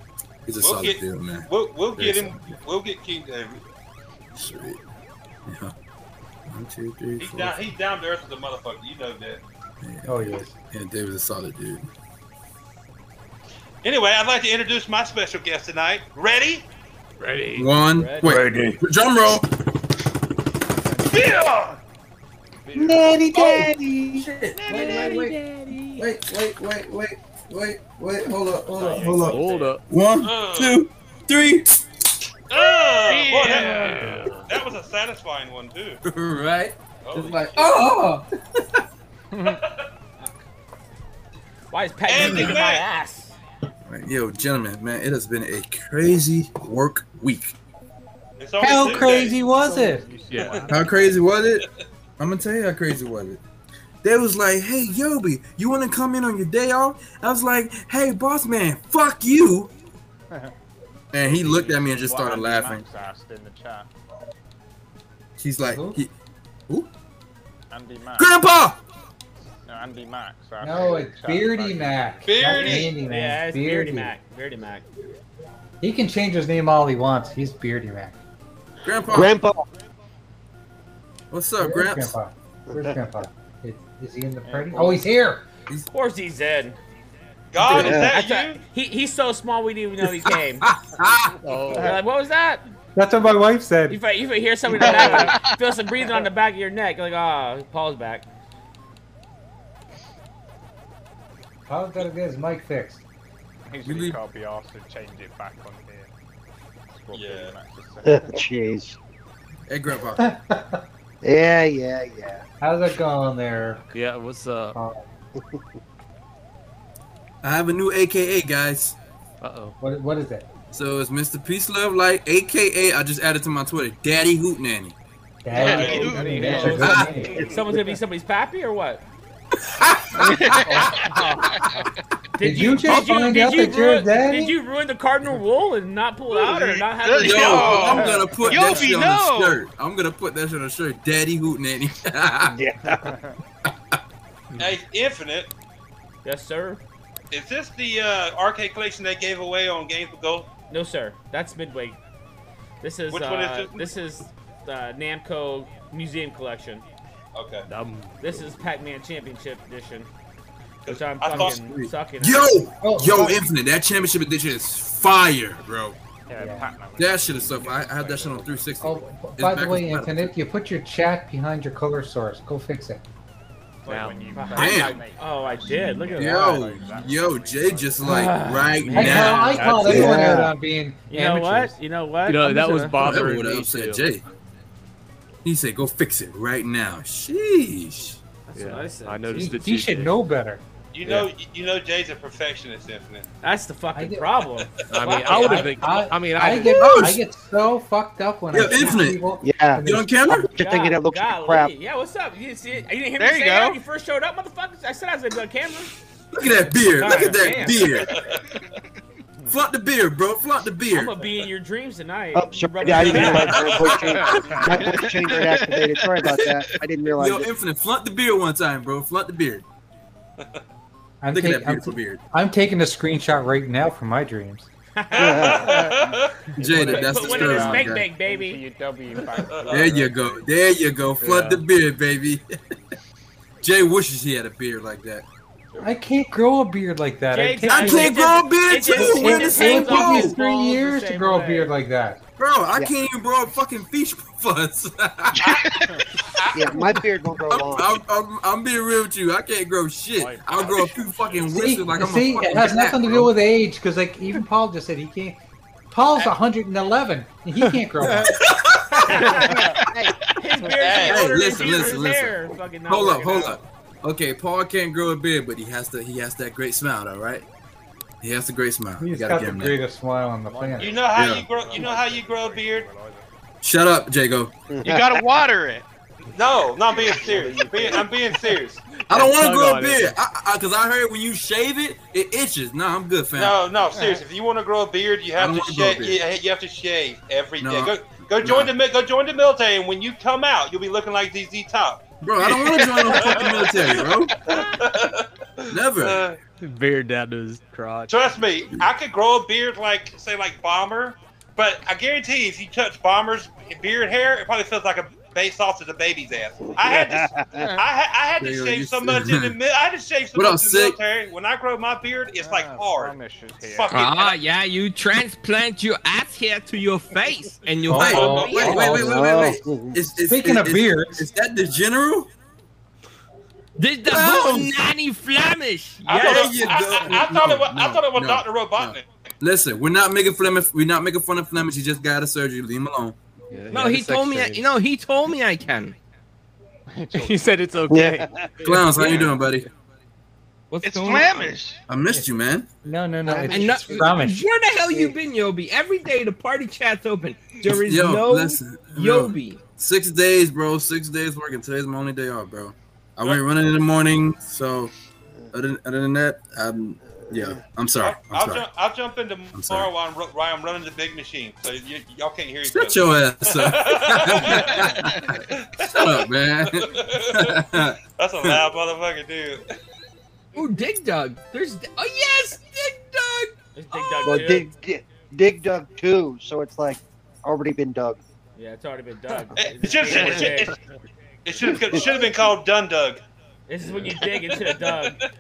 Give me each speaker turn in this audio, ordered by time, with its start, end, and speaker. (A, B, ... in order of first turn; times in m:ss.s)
0:00.5-0:02.6 A
0:00.6-0:03.6 B
0:04.4-0:04.8 A
0:05.5-0:05.7 A
0:06.5-0:07.7 A
0:07.2-0:09.4 B
0:09.8-0:11.9 A
0:10.1-0:10.5 C
0:13.8-0:16.7 B
0:17.2-0:17.7 D
0:17.6-0:19.5 A
0:17.9-0:18.4 E
0:18.5-0:18.8 C
0:20.9-0:21.4 F
0:21.1-0:21.8 B
0:22.6-0:23.2 F
0:22.7-0:24.3 C
0:23.3-0:25.4 A
0:24.6-0:25.1 B
0:24.7-0:26.0 D
0:26.0-0:31.7 A
0:28.7-0:29.6 F
0:28.9-0:29.7 E
0:29.2-0:29.8 D
0:30.2-0:30.8 B
0:32.5-0:33.8 B
0:33.0-0:34.1 G
0:33.4-0:34.5 D
0:34.5-0:36.0 B
0:36.0-0:38.8 A
0:37.0-0:37.7 B
0:39.3-0:39.6 F
0:39.5-0:39.8 B
0:41.7-0:43.4 E
0:42.1-0:42.8 B
0:42.2-0:42.6 A
0:43.9-0:47.6 A
0:48.4-0:49.4 B
0:48.6-0:50.1 C
0:48.7-0:51.3 F
0:50.3-0:50.7 D
0:50.7-0:51.7 A
0:52.2-0:53.4 A
0:54.0-0:59.7 A
1:01.1-1:02.8 A
1:01.2-1:03.9 F
1:05.4-1:06.1 A
1:05.7-1:06.0 C
1:07.7-1:08.3 F
1:08.2-1:08.8 A
1:09.6-1:12.6 F
1:10.6-1:14.1 C
1:12.2-1:12.9 B
1:12.6-1:14.9 E
1:15.8-1:18.2 C
1:18.9-1:19.4 A
1:19.1-1:19.7 H
1:21.3-1:22.2 A
1:21.6-1:25.4 C
1:22.7-1:23.0 H
1:24.4-1:25.1 F
1:25.9-1:26.8 E
1:27.5-1:28.6 B
1:27.6-1:28.1 H
1:27.8-1:30.7 E
1:30.0-1:31.4 A
1:31.4-1:32.0 D
1:31.7-1:32.7 E
1:33.0-1:34.0 C
1:33.9-1:38.3 E
1:34.9-1:35.3 F
1:34.9-1:35.5 G
1:41.7-1:43.0 C
1:43.7-1:46.1 F
1:43.8-1:44.2 A
1:46.9-1:48.4 F
1:47.1-1:47.6 B
1:48.0-1:49.0 H
1:49.7-1:50.3 A
1:50.2-1:50.8 C
1:51.2-1:52.4 H
1:52.6-1:53.8 C
1:53.9-1:54.8 D
1:54.7-1:55.0 C
1:57.4-1:59.0 A
1:59.4-1:59.8 D
1:59.8-2:00.5 C
2:00.7-2:05.0 A
2:05.4-2:07.5 C
2:05.6-2:07.5 F
2:05.6-2:06.2 B
2:05.6-2:06.6 G
2:06.4-2:09.0 E
2:06.7-2:07.1 A
2:09.7-2:10.8 A
2:10.2-2:11.6 G
2:10.7-2:11.4 F
2:12.3-2:18.2 E
2:12.4-2:14.6 C
2:16.3-2:19.6 G
2:17.2-2:22.6 A
2:17.9-2:18.9 F
2:22.5-2:23.2 H
2:22.9-2:23.4 F
2:24.6-2:25.5 B
2:26.2-2:26.8 E
2:27.3-2:30.5 B
2:30.7-2:32.0 E
2:32.8-2:36.8 E
2:33.1-2:33.8 B
2:37.4-2:37.7 B
2:37.7-2:38.5 D
2:38.2-2:40.1 E
2:40.8-2:41.6 B
2:40.9-2:42.6 E
2:41.3-2:46.0 A
2:42.8-2:43.4 C
2:46.3-2:48.7 F
2:46.4-2:46.7 C
2:47.0-2:50.3 A
2:48.8-2:53.0 C
2:53.8-2:58.3 F
2:53.9-2:54.5 D
2:54.3-2:56.6 E
2:54.6-2:55.0 A
2:56.2-3:00.1 A
2:58.0-2:59.8 E
2:58.9-3:01.7 C
2:59.5-3:00.0 D
2:59.8-3:00.5 H
3:01.1-3:03.1 E
3:02.3-3:04.1 D
3:03.0-3:04.2 A
3:05.4-3:08.2 A
3:08.5-3:09.6 E
3:08.6-3:10.2 D
3:09.3-3:10.6 C
3:10.9-3:13.3 B
3:13.4-3:16.0 E
3:14.0-3:14.3 C
3:14.9-3:17.0 D
3:15.5-3:20.1 C
3:16.5-3:17.2 A
3:18.5-3:19.3 A
3:19.4-3:21.7 H
3:19.8-3:20.5 A
3:20.6-3:25.9 E
3:23.2-3:23.8 G
3:26.3-3:28.2 A
3:27.0-3:28.1 E
3:29.5-3:31.2 A
3:30.9-3:33.8 E
3:32.4-3:37.5 H
3:33.0-3:34.6 A
3:33.6-3:34.0 B
3:34.0-3:34.8 F
3:34.8-3:36.8 G
3:37.2-3:39.6 A
3:41.2-3:44.7 C
3:41.3-3:42.2 A
3:45.0-3:45.8 E
3:45.1-3:46.3 B
3:45.2-3:45.7 H
3:45.4-3:50.5 F
3:46.6-3:48.1 A
3:46.7-3:48.6 E
3:49.5-3:49.9 B
3:49.7-3:52.5 A
3:51.2-3:51.6 D
3:53.6-3:55.3 A
3:55.8-3:58.2 C
3:57.3-4:01.7 E
3:57.7-4:00.4 A
3:59.0-4:02.2 C
4:02.4-4:06.7 A
4:05.4-4:05.9 G
4:06.5-4:08.0 H
4:07.5-4:13.3 A
4:10.2-4:11.8 F
4:11.5-4:15.4 C
4:15.9-4:18.4 C
4:18.4-4:19.1 A
4:19.0-4:19.5 E
4:19.1-4:20.2 H
4:20.4-4:23.6 E
4:20.8-4:21.4 B
4:21.0-4:27.5 A
4:28.2-4:29.8 A
4:29.0-4:31.0 C
4:30.4-4:33.3 F
4:30.8-4:32.9 B
4:31.2-4:31.4 A
4:33.6-4:34.5 A
4:34.7-4:35.2 H
4:34.8-4:35.8 G
4:36.3-4:38.8 B
4:36.9-4:38.1 F
4:39.1-4:43.6 A
4:39.1-4:40.2 D
4:43.4-4:56.4 B
4:43.9-4:44.2 F
4:45.4-4:46.2 A
4:47.6-4:48.7 A
4:52.2-4:54.4 A
4:55.7-4:56.3 A
4:56.6-4:58.1 D
4:58.1-5:14.4 B
5:06.8-5:07.7 H
5:08.4-5:09.6 A
5:10.4-5:11.0 A
5:12.4-5:14.1 F
5:13.9-5:19.0 I
5:17.9-5:19.3 C
5:17.9-5:22.3 A
5:18.1-5:18.7 B
5:18.8-5:20.0 H
5:20.2-5:21.3 C
5:23.8-5:26.5 I
5:24.0-5:24.7 A
5:26.1-5:29.1 B
5:26.1-5:26.4 E
5:26.1-5:33.2 A
5:33.5-5:34.6 D
5:33.7-5:36.0 I
5:33.8-5:34.6 A
5:37.0-5:37.5 F
5:37.1-5:39.3 D
5:37.9-5:38.7 H
5:38.6-5:39.7 A
5:40.7-5:41.6 I
5:40.8-5:41.8 G
5:41.9-5:42.7 A
5:42.1-5:44.5 C
5:43.2-5:44.2 H
5:43.5-5:49.6 I
5:44.9-5:45.2 H
5:47.6-5:54.9 A
5:55.5-5:58.7 A
5:57.2-5:57.6 H
5:58.0-6:09.7 B
5:59.5-5:59.9 A
6:02.7-6:08.6 A
6:10.5-6:13.5 I
6:13.8-6:14.7 E
6:14.2-6:18.2 H
6:18.6-6:20.8 E
6:19.6-6:20.8 B
6:20.1-6:20.5 H
6:21.4-6:23.2 B
6:21.6-6:22.2 H
6:23.7-6:25.2 E